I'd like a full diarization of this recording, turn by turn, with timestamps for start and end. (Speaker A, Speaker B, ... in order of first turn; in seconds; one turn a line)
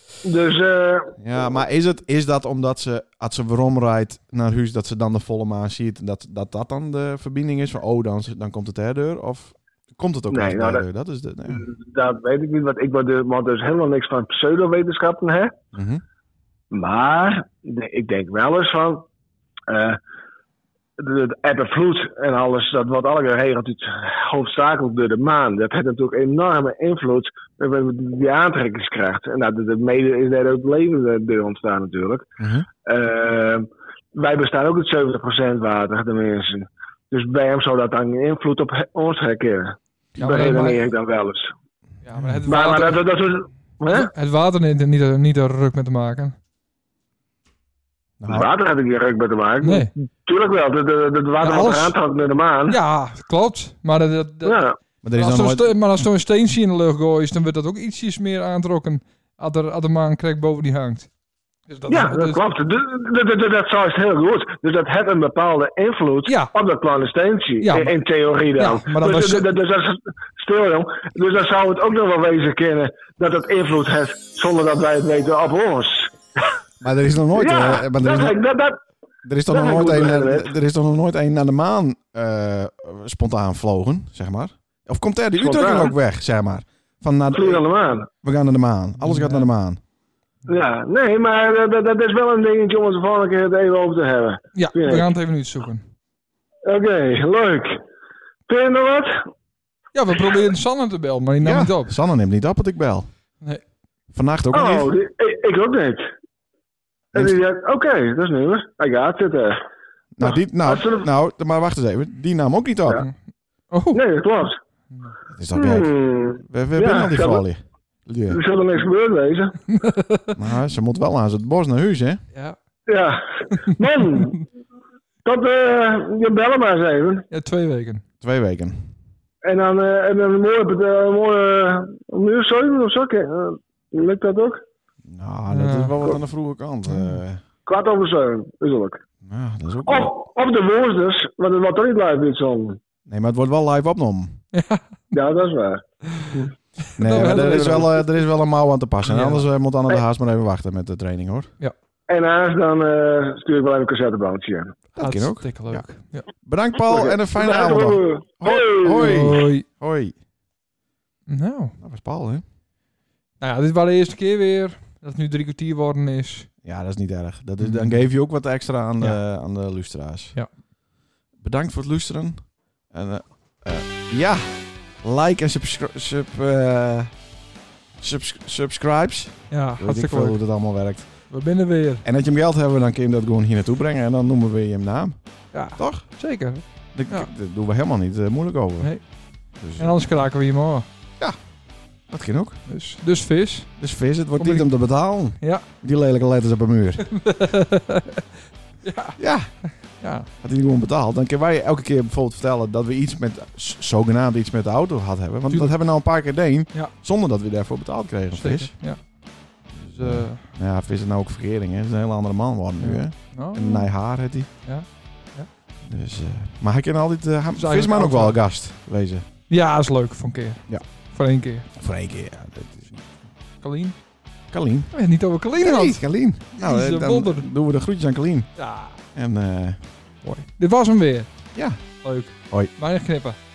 Speaker A: 0.2-1.2
Speaker B: 1.2-11.7
Speaker A: 10.3-10.8
Speaker A: 11.5-15.5
Speaker B: 15.7-16.0
Speaker A: 16.7-19.1
Speaker A: 19.7-20.0
Speaker A: 21.0-32.2
Speaker B: 32.4-32.6
Speaker A: 32.8-41.5
Speaker C: 40.2-40.8
Speaker C: 42.0-43.0
Speaker A: 42.5-44.1
Speaker C: 43.9-46.4
Speaker B: 48.2-48.5
Speaker A: 48.2-52.8
Speaker C: 49.6-49.9
Speaker C: 51.4-51.9
Speaker C: 52.7-54.6
Speaker A: 54.4-54.8
Speaker B: 55.0-55.7
Speaker C: 55.1-61.1
Speaker C: 61.7-62.4
Speaker A: 61.9-76.5
Speaker C: 66.2-66.5
Speaker C: 67.6-67.9
Speaker C: 68.6-69.4
Speaker B: 76.8-78.4
Speaker A: 77.3-78.8
Speaker B: 79.2-87.6
Speaker A: 79.5-80.5
Speaker A: 85.3-85.9
Speaker A: 87.3-88.1
Speaker B: 88.2-89.8
Speaker C: 89.0-89.5
Speaker A: 90.5-95.1
Speaker C: 94.5-95.8
Speaker A: 96.7-97.8
Speaker A: 98.5-99.2
Speaker C: 99.9-101.9
Speaker B: 101.4-103.1
Speaker B: 104.1-104.9
Speaker A: 104.5-106.1
Speaker A: 107.1-109.6
Speaker B: 110.2-113.0
Speaker A: 110.2-111.0
Speaker C: 113.7-114.0
Speaker A: 113.9-114.6
Speaker B: 115.3-118.4
Speaker A: 115.5-117.4
Speaker A: 118.3-119.6
Speaker C: 119.8-120.3
Speaker B: 120.3-122.2
Speaker A: 122.9-124.4
Speaker A: 125.2-127.3
Speaker C: 127.3-128.0
Speaker B: 128.2-128.9
Speaker A: 129.4-134.6
Speaker B: 135.1-137.4
Speaker C: 135.5-135.9
Speaker C: 136.9-137.2
Speaker A: 137.7-139.0
Speaker B: 139.2-140.1
Speaker A: 139.9-142.8
Speaker B: 143.1-144.4
Speaker C: 144.5-144.8
Speaker A: 145.1-145.8
Speaker C: 146.1-146.4
Speaker B: 147.0-151.5
Speaker C: 147.0-148.1
Speaker C: 149.1-149.4
Speaker A: 152.1-154.8
Speaker B: 154.9-155.9
Speaker C: 155.0-156.3
Speaker B: 156.4-160.1
Speaker A: 156.8-159.2
Speaker C: 159.0-159.6
Speaker C: 161.3-161.8
Speaker B: 161.8-162.4
Speaker C: 163.4-166.5
Speaker B: 166.6-170.3
Speaker C: 167.6-168.0
Speaker B: 171.4-177.2
Speaker B: 178.0-181.3
Speaker C: 179.5-180.4
Speaker C: 181.3-182.0
Speaker B: 182.0-185.2
Speaker C: 185.5-187.3
Speaker B: 185.8-186.2
Speaker B: 186.9-188.9
Speaker C: 188.8-189.1
Speaker B: 189.5-190.1
Speaker C: 189.8-190.9
Speaker B: 192.1-192.6
Speaker C: 192.7-193.7
Speaker B: 193.8-197.0
Speaker C: 194.4-194.7
Speaker C: 195.4-195.7
Speaker C: 197.1-198.2
Speaker C: 198.8-200.3
Speaker B: 199.2-199.8
Speaker B: 200.4-208.7
Speaker C: 205.5-205.8
Speaker C: 208.3-209.2
Speaker B: 209.7-214.5
Speaker C: 209.9-210.4
Speaker C: 212.8-213.9
Speaker C: 214.6-215.5
Speaker B: 215.8-219.2
Speaker C: 217.5-218.4
Speaker C: 219.5-221.7
Speaker B: 221.7-223.1
Speaker C: 223.6-223.9
Speaker B: 224.5-224.9
Speaker C: 224.9-226.0
Speaker B: 225.6-228.5
Speaker C: 226.6-227.5
Speaker C: 228.6-229.0
Speaker B: 229.1-229.8
Speaker C: 230.2-231.3
Speaker B: 231.5-231.8
Speaker C: 232.0-233.4